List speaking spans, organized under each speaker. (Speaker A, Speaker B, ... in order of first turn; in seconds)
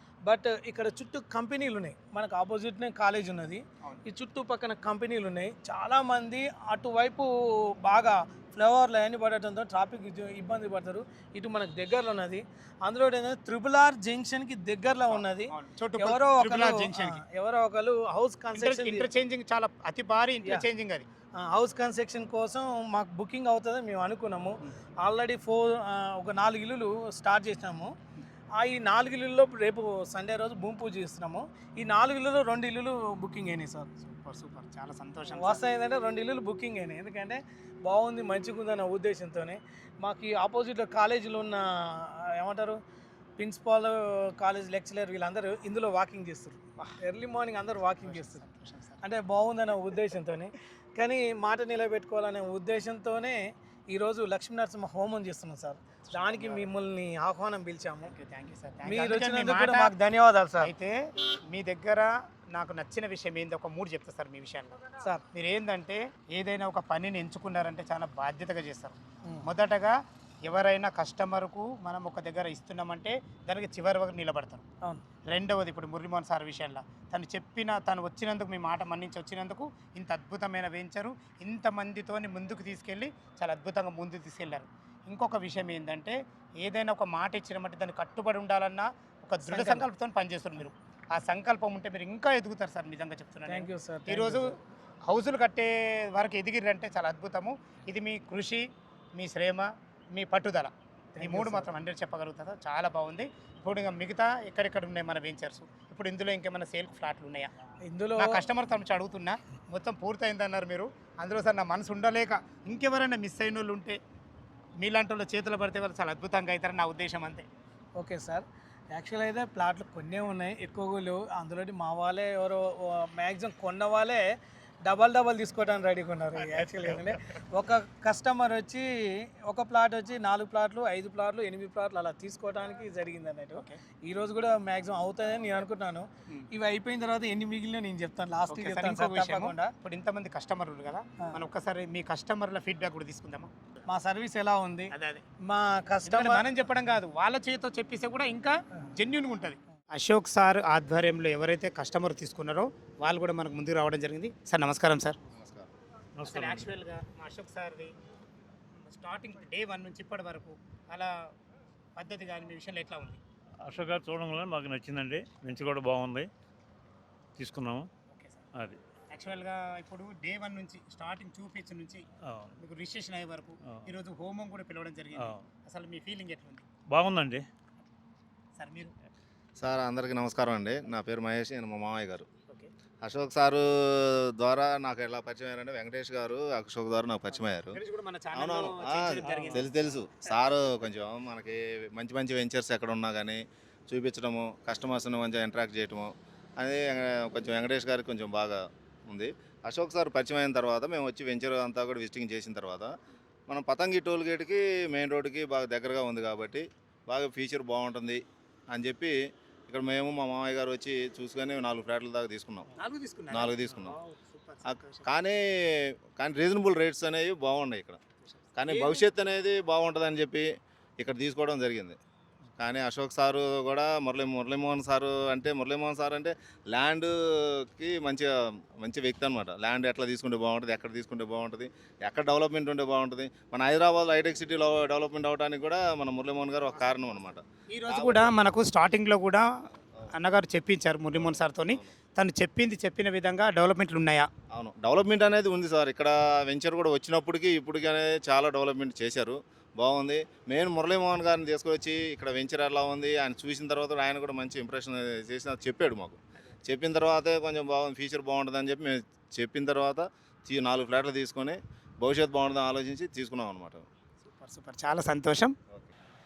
Speaker A: 0.2-19.1, 21.4-27.9, 28.6-33.9, 35.3-42.8, 43.4-48.4, 49.0-58.1, 58.9-60.7, 89.4-89.9, 93.5-94.5, 101.2-101.7, 107.9-108.4, 118.0-124.3, 124.8-139.7, 143.9-144.9, 145.4-146.4
Speaker B: 15.1-17.2, 18.5-21.1, 34.0-35.6, 48.0-49.0, 56.1-56.7, 58.0-59.9, 60.6-69.9, 70.4-74.6, 75.3-94.5, 95.0-107.5, 108.2-114.0, 114.8-117.5, 126.4-127.2, 133.5-133.8, 138.5-143.8, 144.9-145.2, 146.1-155.2, 156.2-157.9, 158.8-161.3, 161.9-163.2, 168.1-168.4, 169.1-172.0, 172.6-176.6, 178.6-178.9, 187.7-190.3, 212.7-215.1, 218.2-219.0, 237.7-239.5, 240.1-244.3, 264.2-265.5
Speaker C: 155.3-155.7, 179.6-182.3, 183.0-187.8, 188.3-202.9, 203.5-209.2, 209.7-212.7, 213.3-214.0, 214.6-218.0, 218.6-222.0, 222.6-238.3, 241.2-241.9, 244.5-263.9
Speaker D: 156.2-156.7, 163.6-166.2, 167.4-167.9, 172.2-172.5, 173.6-173.9, 175.2-175.4, 176.9-177.4, 189.2-189.6